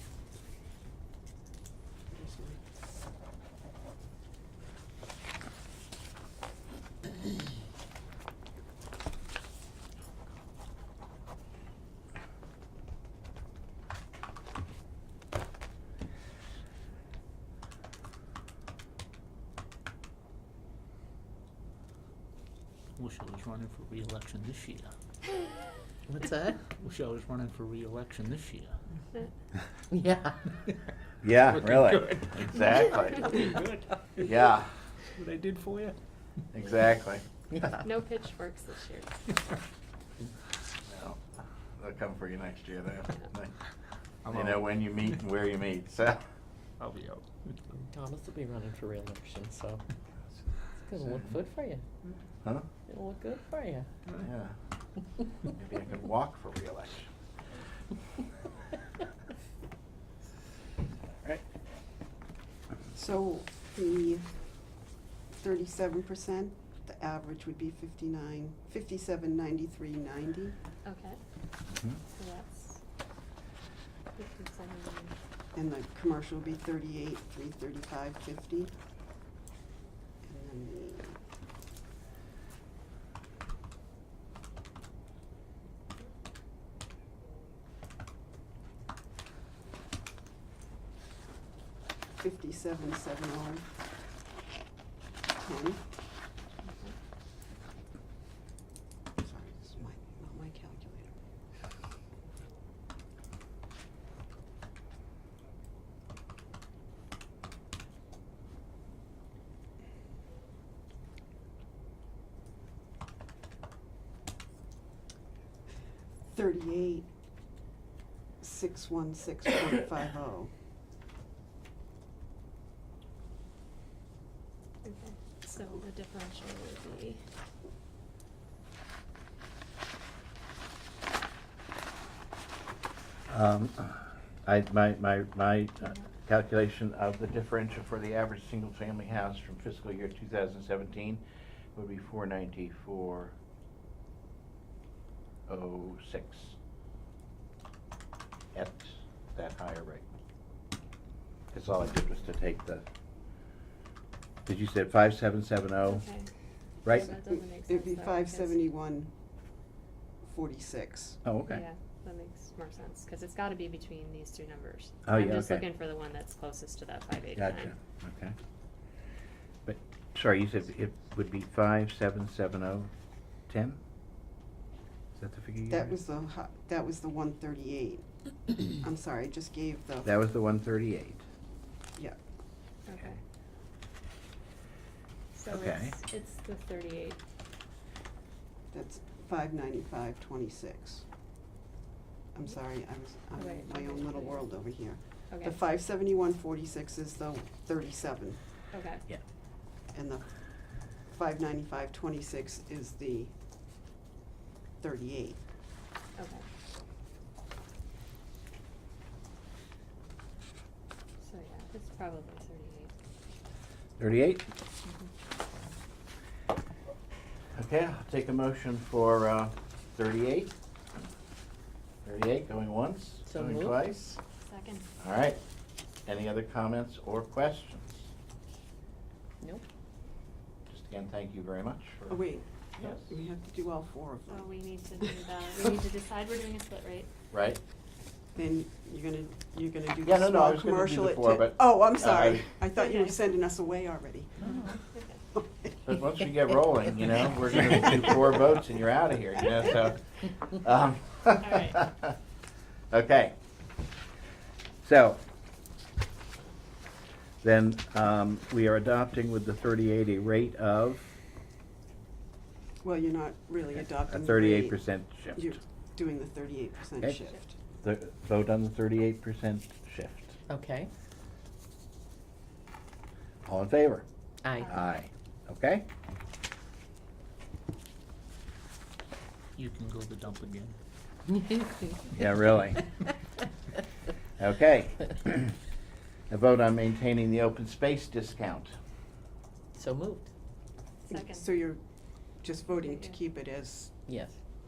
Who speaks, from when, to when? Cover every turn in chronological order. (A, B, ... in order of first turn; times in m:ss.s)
0:02.1-0:02.6 A
0:23.0-0:24.9 B
0:26.1-0:26.6 C
0:26.8-0:28.8 B
0:29.9-0:30.4 C
0:31.2-0:33.5 D
0:31.6-0:32.3 B
0:33.2-0:34.0 B
0:34.2-0:34.8 D
0:35.2-0:36.0 B
0:36.5-0:37.2 D
0:37.8-0:39.2 E
0:40.9-0:41.2 D
0:41.8-0:43.6 D
0:44.2-0:44.6 B
0:44.3-0:46.2 D
0:46.8-0:47.5 B
0:47.8-0:49.8 C
0:50.8-0:51.8 C
0:52.9-0:53.9 C
0:54.2-0:54.6 D
0:55.5-0:57.1 D
1:03.0-1:04.3 A
1:05.4-1:10.6 A
1:10.8-1:11.2 E
1:11.7-1:12.0 D
1:12.0-1:12.8 E
1:14.2-1:15.1 E
1:15.5-1:18.7 A
1:20.2-1:21.2 A
1:32.2-1:33.7 A
1:35.4-1:35.8 A
1:36.7-1:37.0 E
1:39.2-1:41.1 A
1:56.3-1:57.1 A
1:58.4-2:00.5 A
2:04.8-2:07.2 E
2:13.3-2:21.2 D
2:21.8-2:23.3 D
2:25.5-2:26.6 D
2:28.5-2:30.0 D
2:31.5-2:32.8 D
2:34.5-2:36.0 D
2:35.8-2:36.3 E
2:36.9-2:38.7 E
2:36.9-2:39.1 A
2:40.2-2:41.2 A
2:41.2-2:41.6 D
2:41.5-2:47.7 E
2:45.1-2:45.6 D
2:47.4-2:48.4 D
2:49.7-2:52.9 D
2:53.5-2:53.8 D
2:55.2-2:56.0 D
2:55.7-3:00.1 A
3:00.0-3:01.2 D
3:02.8-3:03.2 E
3:05.3-3:07.2 E
3:05.5-3:06.0 D
3:08.7-3:11.0 A
3:12.3-3:18.4 A
3:13.3-3:14.5 E
3:15.3-3:15.6 E
3:18.7-3:19.1 E
3:19.9-3:20.3 A
3:20.9-3:23.3 A
3:24.8-3:25.4 A
3:26.2-3:26.5 E
3:31.2-3:32.9 E
3:34.0-3:34.4 D
3:37.6-3:40.5 D
3:42.0-3:44.2 D
3:43.3-3:43.8 C
3:44.5-3:44.9 E
3:45.0-3:45.4 D
3:46.1-3:48.1 D
3:50.7-3:52.2 D
3:52.1-3:54.5 A
3:54.3-3:57.1 E
3:57.3-3:57.6 D
3:58.4-4:06.0 A
4:00.0-4:02.5 D
4:02.8-4:03.3 E
4:04.5-4:05.2 E
4:05.8-4:12.1 D
4:11.4-4:11.8 E
4:12.9-4:13.4 D
4:14.8-4:15.2 D
4:17.4-4:21.2 D
4:22.8-4:24.8 A
4:24.0-4:25.5 D
4:25.4-4:27.5 A
4:27.8-4:30.3 D
4:30.5-4:30.9 C
4:33.4-4:34.1 D
4:34.4-4:34.7 C
4:34.6-4:35.9 D
4:39.6-4:40.8 B
4:42.1-4:42.9 D
4:44.4-4:45.6 D
4:46.3-4:48.7 D
4:49.8-4:50.3 C
4:51.1-4:51.5 E
4:51.1-4:51.8 A
4:52.4-4:54.0 A
4:52.7-4:53.2 E
4:54.1-4:54.4 C